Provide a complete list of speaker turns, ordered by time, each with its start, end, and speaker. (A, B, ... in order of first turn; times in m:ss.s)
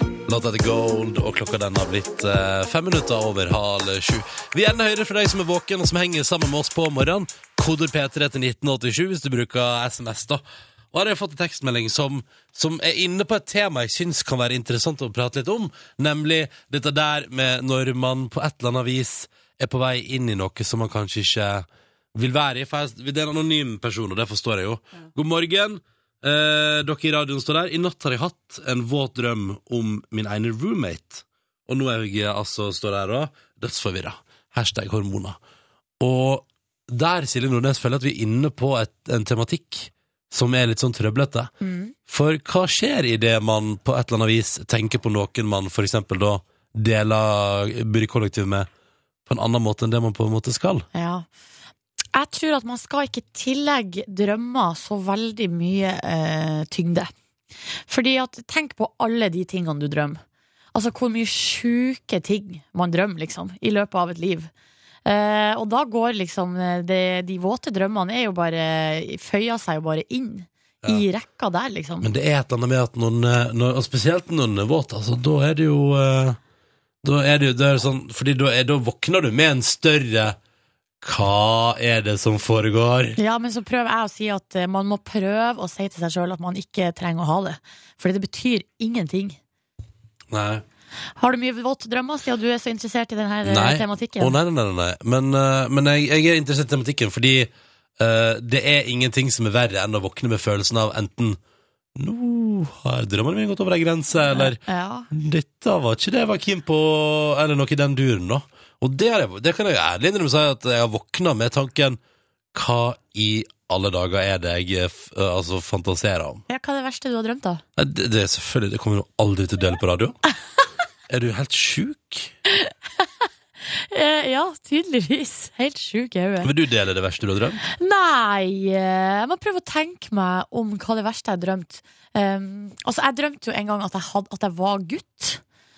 0:00.3-0:35.4 A
0:36.0-0:41.5 A
0:41.6-0:41.9 B
0:42.1-0:48.7 A
0:49.3-0:50.8 A
0:50.9-0:51.3 B
0:52.1-0:57.1 B
0:57.9-1:00.2 B
1:00.7-1:04.5 B
1:05.0-1:12.1 B
1:12.0-1:16.4 A
1:17.0-1:20.4 A
1:21.0-1:23.2 A
1:23.2-1:29.4 B
1:30.3-1:30.6 A
1:31.2-1:34.4 B
1:33.4-1:41.4 A
1:41.9-1:44.6 A
1:44.2-1:45.1 B
1:45.1-1:52.0 A
1:52.5-1:56.4 A
1:56.5-1:57.6 B
1:57.8-2:00.2 A
2:01.1-2:02.3 A
2:02.5-2:03.1 B
2:03.7-2:06.5 B
2:06.4-2:07.6 A
2:07.6-2:15.4 B